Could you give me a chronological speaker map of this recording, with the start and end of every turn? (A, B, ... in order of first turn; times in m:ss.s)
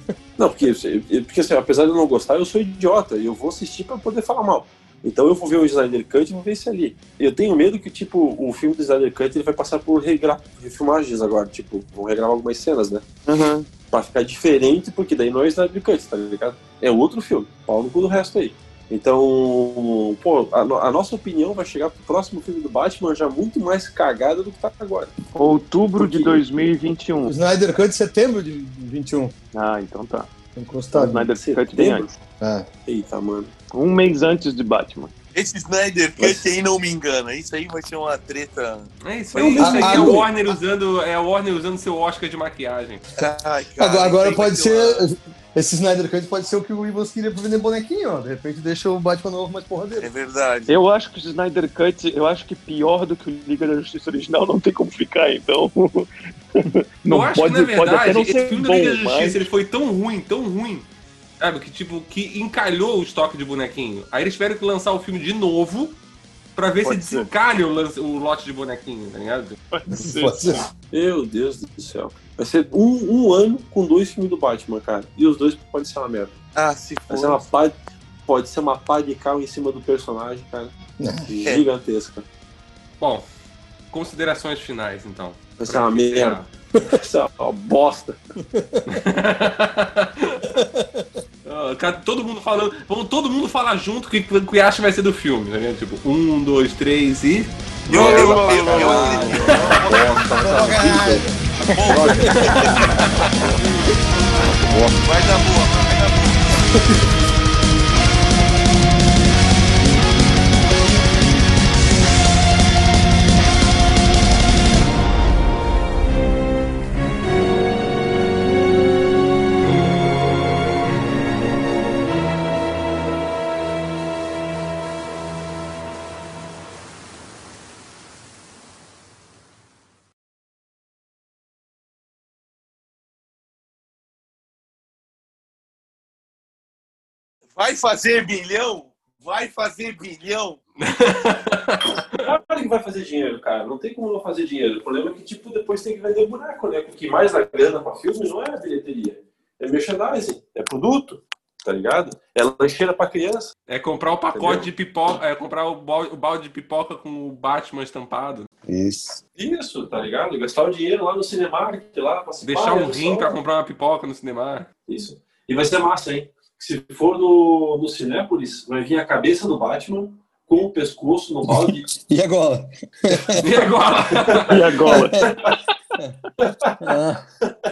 0:00.4-0:13.0 A
0:13.2-0:13.7 B
0:13.9-0:25.1 A
0:25.3-0:27.3 C
0:26.0-0:26.5 A
0:27.2-0:29.3 D
0:29.5-0:30.3 C
0:30.6-0:31.3 D
0:30.9-0:32.1 C
0:31.3-0:32.1 A
0:32.4-0:32.6 D
0:32.8-0:33.5 A
0:33.7-0:35.1 C
0:35.3-0:38.9 B
0:39.0-0:43.0 E
0:39.3-0:40.3 A
0:39.6-0:40.2 D
0:43.2-0:45.0 B
0:43.8-0:50.1 D
0:50.0-0:50.7 B
0:50.7-0:59.4 C
0:57.1-1:00.9 E
1:01.4-1:06.0 E
1:06.5-1:09.6 E
1:06.8-1:07.2 C
1:09.7-1:10.6 C
1:09.9-1:10.6 D
1:10.9-1:16.3 A
1:16.5-1:17.4 B
1:17.1-1:20.7 A
1:21.0-1:21.4 D
1:21.3-1:22.2 A
1:23.0-1:23.2 E
1:23.9-1:26.5 E
1:25.6-1:26.4 A
1:26.9-1:28.2 A
1:28.5-1:28.8 D
1:28.9-1:30.4 E
1:30.6-1:31.1 D
1:31.4-1:39.8 E
1:37.9-1:41.2 A
1:37.9-1:40.2 B
1:40.4-1:42.2 D
1:41.6-1:43.0 B
1:41.8-1:42.8 A
1:44.6-1:45.0 A
1:45.0-1:46.7 B
2:17.6-2:20.6 B
2:20.8-2:22.2 E
2:22.2-2:33.5 A
2:33.7-2:38.5 E
2:34.3-2:34.7 A
2:38.7-2:39.2 D
2:39.4-2:43.4 A
2:42.4-2:44.7 E
2:44.9-2:51.9 A
2:51.5-2:53.4 D
2:53.4-2:54.7 E
2:54.2-2:55.4 D
2:54.5-2:55.2 C
2:56.4-2:56.7 A
2:56.8-2:57.2 D